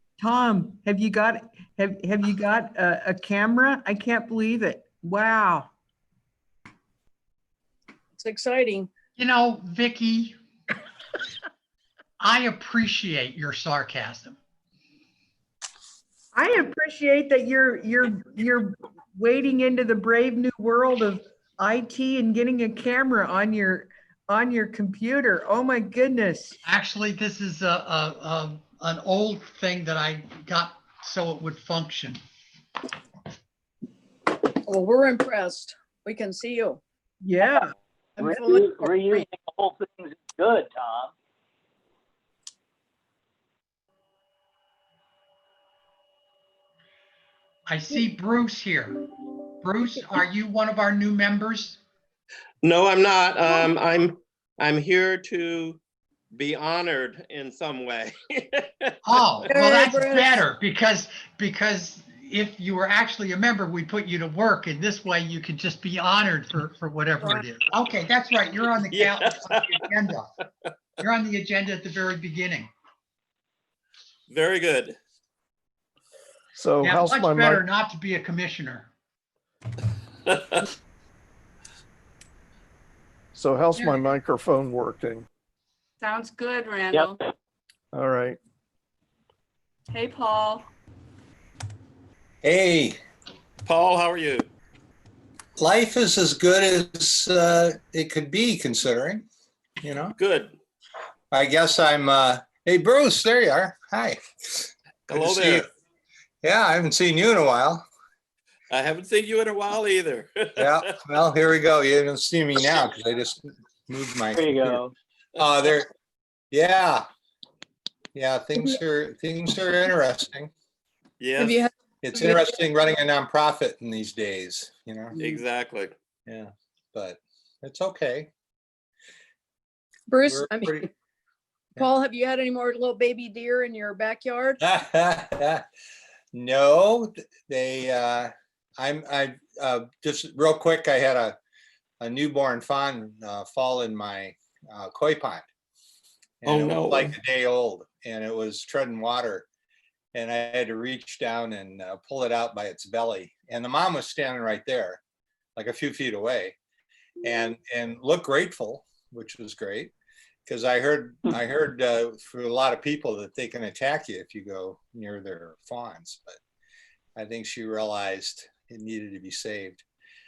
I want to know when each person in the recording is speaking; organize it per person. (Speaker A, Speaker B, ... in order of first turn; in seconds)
Speaker A: 0.2-5.7, 16.3-26.6, 37.2-37.7
Speaker B: 8.2-8.9, 34.6-36.8, 38.2-39.3, 59.5-60.3, 121.4-122.2, 130.1-130.9, 131.8-134.6
Speaker C: 9.2-10.4, 12.2-14.4, 26.6-32.2, 47.7-49.1, 49.6-51.8, 59.0-70.3, 71.0-72.7, 76.8-78.9, 83.8-84.1
Speaker D: 38.2-41.1, 114.3-114.9
Speaker E: 52.6-55.8, 56.3-58.9, 68.9-69.8, 74.3-75.0, 93.7-94.5, 100.2-100.5, 105.1-105.7, 108.7-110.8, 121.2-121.7, 125.2-125.9, 146.4-147.1
Speaker F: 76.6-77.6, 83.3-85.2, 87.9-88.4
Speaker G: 86.0-87.2, 89.9-90.7
Speaker H: 92.4-93.0, 95.6-99.2, 99.8-100.2, 101.3-105.7, 106.4-107.8, 110.6-114.8, 115.3-115.9, 116.5-117.0, 118.2-120.5, 122.0-125.2, 126.3-128.3, 130.2-130.9, 134.6-135.6, 136.3-141.4, 142.0-145.4, 146.4-149.5, 150.1-155.0, 155.6-156.6, 157.2-159.9, 160.4-166.4, 167.2-169.8